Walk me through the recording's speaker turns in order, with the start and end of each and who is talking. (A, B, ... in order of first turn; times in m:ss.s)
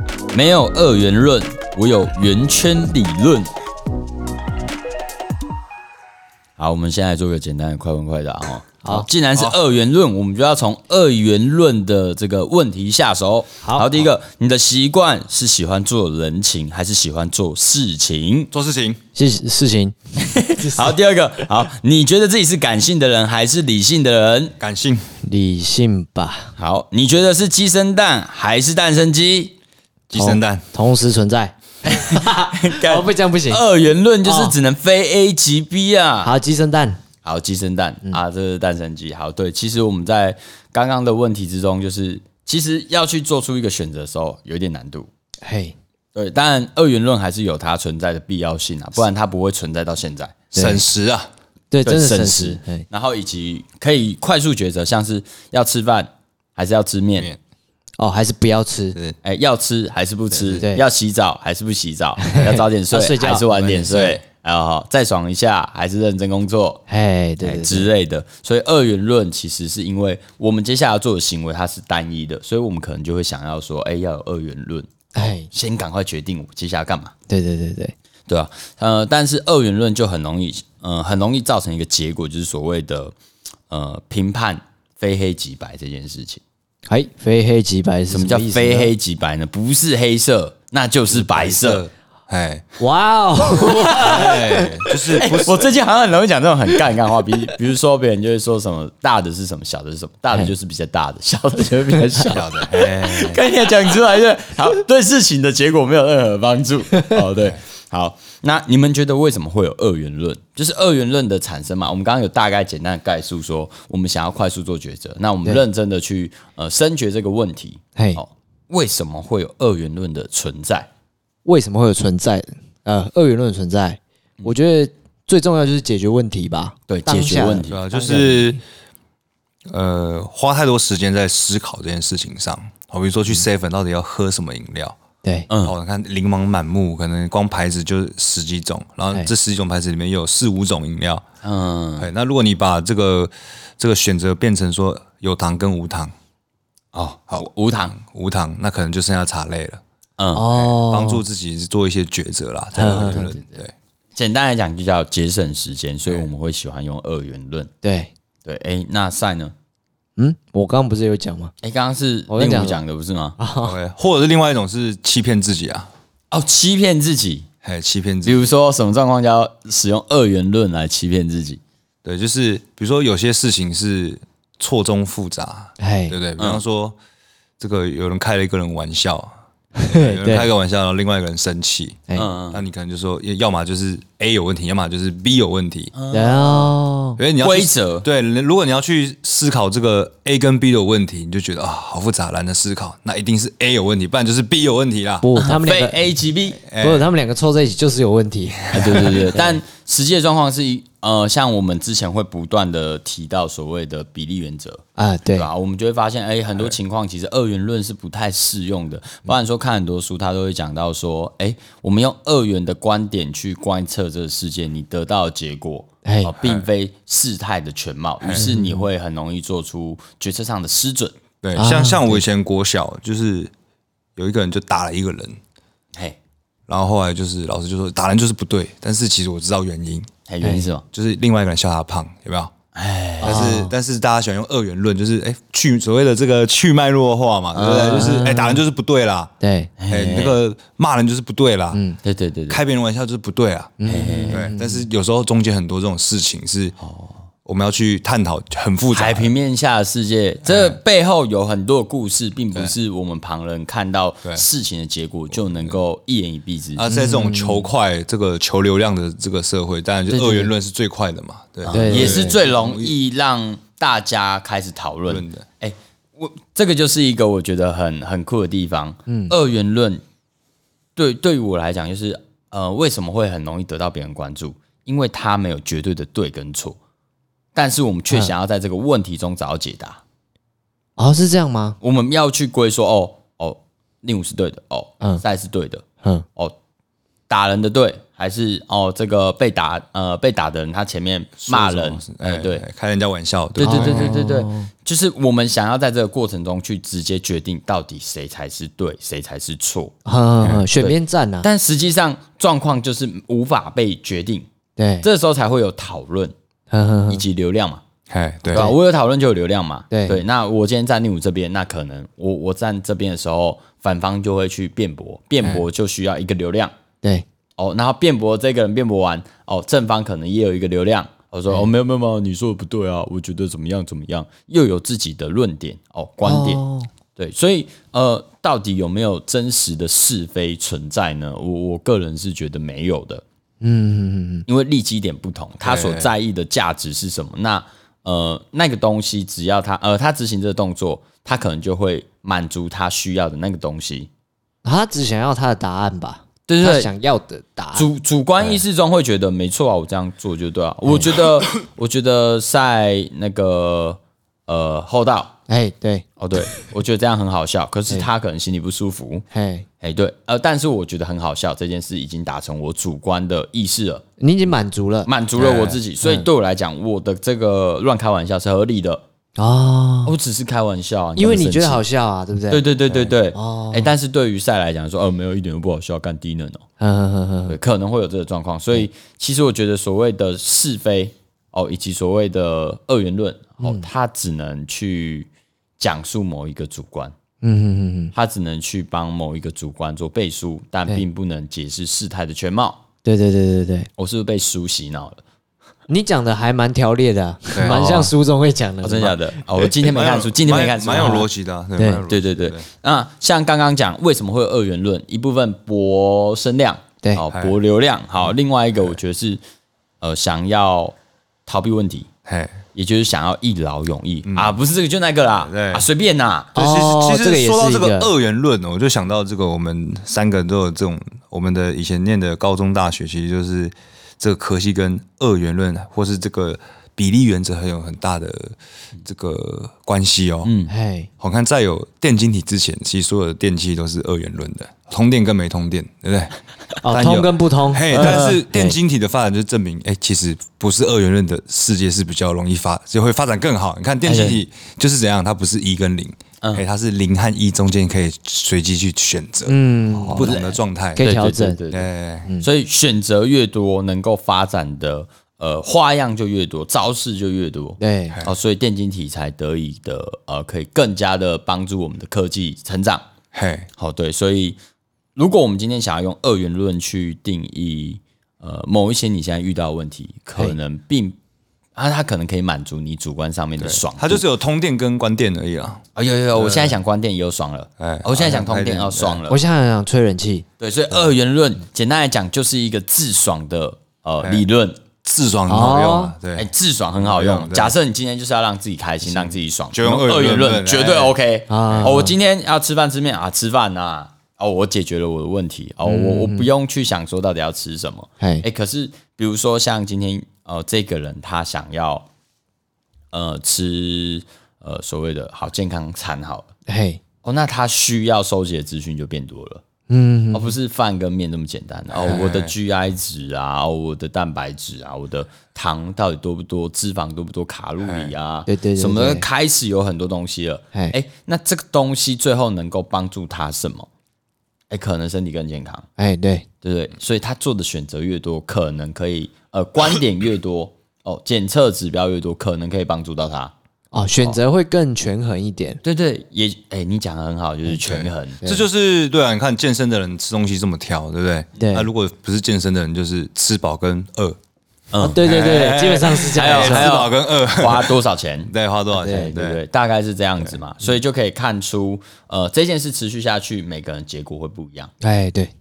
0:00.3-0:03.5 A
0:06.6-0:18.5 A
0:13.6-0:14.0 B
0:18.5-0:19.0 C
0:19.1-0:20.9 B
0:20.2-0:24.6 A
0:24.6-0:25.1 C
0:25.2-0:26.5 B
0:26.6-0:29.5 A
0:30.1-0:30.7 C
0:30.1-0:33.6 B
0:31.8-0:36.3 A
0:34.2-0:34.6 B
0:36.2-0:37.0 B
0:37.2-0:45.1 A
0:45.4-0:45.7 B
0:46.1-0:50.4 A
0:50.5-0:50.9 B
0:50.5-0:51.3 C
0:51.7-0:52.9 B
0:51.8-0:57.3 A
0:58.0-0:59.0 B
0:59.2-1:06.8 A
1:00.5-1:00.8 B
1:02.2-1:04.1 B
1:06.9-1:07.9 B
1:07.4-1:14.9 A
1:15.1-1:15.5 B
1:15.5-1:17.1 A
1:17.3-1:17.9 B
1:18.3-1:23.2 A
1:23.7-1:26.4 A
1:26.9-1:28.9 B
1:28.1-1:31.9 A
1:31.1-1:32.6 C
1:32.8-1:34.8 B
1:33.4-2:00.9 A
1:34.0-1:35.7 C
1:42.2-1:43.4 C
1:58.0-1:58.2 B
2:01.4-2:08.6 B
2:06.9-2:07.8 A
2:07.7-2:08.6 C
2:09.7-2:15.0 C
2:15.2-2:15.5 B
2:15.5-2:15.8 A
2:15.6-2:21.2 C
2:21.4-2:22.1 A
2:22.0-2:26.1 C
2:26.9-2:29.8 C
2:27.3-2:28.0 A
2:30.2-2:30.4 A
2:30.3-2:31.2 B
2:30.5-2:33.7 C
2:32.7-2:33.4 B
2:34.2-2:37.7 A
2:37.8-2:38.1 B
2:38.4-2:39.5 A
2:40.2-2:41.5 B
2:41.6-2:43.4 A
2:42.3-2:42.8 B
2:43.4-2:43.8 B
2:43.6-2:45.9 C
2:46.3-2:47.5 A
2:47.6-2:48.5 C
2:48.2-2:51.6 A
2:52.0-2:57.0 C
2:55.8-2:56.2 B
2:56.4-2:56.6 A
2:57.6-3:02.0 C
2:59.8-3:00.5 B
3:02.1-3:02.6 A
3:02.5-3:05.9 C
3:05.9-3:06.8 A
3:06.1-3:07.2 B
3:07.2-3:15.3 C
3:07.4-3:08.1 A
3:15.2-3:16.0 B
3:15.4-3:16.7 A
3:16.6-3:17.1 C
3:16.7-3:18.8 B
3:18.7-3:24.8 A
3:18.8-3:19.4 C
3:25.0-3:25.5 B
3:25.3-3:41.2 A
3:36.0-3:36.4 B
3:38.2-3:38.5 C
3:38.4-3:38.9 B
3:41.4-3:43.5 C
3:41.6-3:42.2 B
3:44.2-3:45.4 C
3:46.7-3:50.1 C
3:50.3-3:50.8 A
3:50.4-3:50.7 B
3:50.9-3:52.5 C
3:52.7-3:53.5 A
3:53.2-3:59.3 C
3:53.2-3:53.7 B
3:57.5-3:58.1 A
3:57.9-3:58.6 B
3:59.4-3:59.8 B
3:59.8-4:00.4 A
3:59.9-4:01.8 C
4:01.7-4:02.0 B
4:02.0-4:02.6 A
4:02.5-4:06.8 C
4:03.8-4:04.9 B
4:03.9-4:04.5 A
4:06.8-4:07.2 A
4:07.4-4:09.3 C
4:08.9-4:16.9 A
4:10.4-4:10.8 C
4:15.3-4:15.8 C
4:16.8-4:22.9 C
4:16.9-4:17.7 B
4:20.1-4:20.5 B
4:21.6-4:30.0 A
4:21.7-4:22.4 B
4:25.1-4:25.4 C
4:29.1-4:29.4 B
4:31.0-4:36.8 A
4:37.5-4:40.0 A
4:41.0-4:41.8 B
4:41.8-4:46.6 A
4:47.3-4:52.6 A
4:51.4-4:54.1 C
4:53.6-4:59.9 A
4:53.6-4:54.7 B
5:00.0-5:01.5 B
5:00.4-5:00.7 C
5:00.8-5:04.5 A
5:04.8-5:05.1 B
5:05.0-5:06.3 A
5:06.7-5:07.2 B
5:07.1-5:07.8 A
5:08.1-5:08.7 C
5:08.5-5:16.8 A
5:09.9-5:10.2 B
5:17.6-5:26.6 A
5:26.2-5:26.9 B
5:27.1-5:33.2 A
5:33.6-5:34.4 B
5:34.5-5:44.1 A
5:35.6-5:36.1 C
5:44.6-5:47.9 B
5:46.5-5:46.9 A
5:47.7-5:55.4 A
5:50.9-5:51.1 B
5:55.5-5:56.0 B
5:56.2-5:59.2 A
5:59.3-5:59.7 B
5:59.8-6:04.0 A
6:04.2-6:05.1 B
6:05.0-6:09.1 A
6:05.4-6:05.8 C
6:06.0-6:06.3 B
6:09.4-6:10.1 B
6:10.0-6:11.8 A
6:11.2-6:13.9 B
6:12.5-6:16.6 A
6:16.8-6:17.6 B
6:17.4-6:27.2 A
6:23.6-6:23.9 B
6:27.4-6:28.1 B
6:28.1-6:32.8 A
6:33.0-6:33.9 B
6:34.0-6:35.2 A
6:35.9-6:39.2 B
6:37.5-6:37.9 C
6:37.6-6:38.1 A
6:38.8-6:41.3 A
6:39.6-6:42.6 C
6:40.9-6:41.2 B
6:41.8-6:42.1 B
6:42.0-6:49.4 A
6:47.3-6:47.6 C
6:50.0-6:50.9 A
6:51.5-6:52.1 A
6:52.2-6:52.6 C
6:52.7-6:56.6 A
6:54.2-6:54.6 C
6:55.4-6:55.9 C
6:56.6-6:58.1 B
6:56.6-7:10.5 C
7:10.4-7:10.7 A
7:10.7-7:11.1 B
7:11.2-7:31.1 C
7:16.8-7:18.8 B
7:17.9-7:18.4 A
7:24.0-7:24.4 B
7:29.4-7:30.4 B
7:30.1-7:43.1 A
7:30.9-7:31.6 B
7:31.7-7:32.3 C
7:37.8-7:38.2 B
7:43.3-7:43.7 C
7:43.8-7:44.6 A
7:45.2-7:51.2 A
7:51.8-7:54.3 A
7:53.6-7:55.8 C
7:55.9-7:59.4 A
7:56.3-7:56.8 C
7:57.8-7:59.2 C
7:59.3-8:00.4 B
8:00.6-8:04.8 A
8:05.0-8:07.8 C
8:05.5-8:06.2 B
8:06.3-8:22.1 A
8:09.7-8:12.0 C
8:11.5-8:12.1 B
8:15.8-8:16.5 B
8:18.2-8:18.5 B
8:23.1-8:26.5 A
8:26.7-8:27.0 B
8:27.2-8:29.6 A
8:29.9-8:30.6 B
8:30.3-8:43.9 A
8:31.9-8:32.6 C
8:37.8-8:38.1 C
8:38.5-8:39.3 B
8:44.7-8:45.9 A
8:46.0-8:46.5 B
8:46.6-8:53.5 A
8:53.9-8:55.8 B
8:55.8-8:58.4 A
8:57.8-9:04.4 C
9:01.6-9:01.9 B
9:04.9-9:05.2 A
9:05.0-9:07.0 B
9:05.2-9:09.6 C
9:06.3-9:08.5 A
9:08.9-9:09.3 B
9:09.1-9:14.9 A
9:15.0-9:15.5 B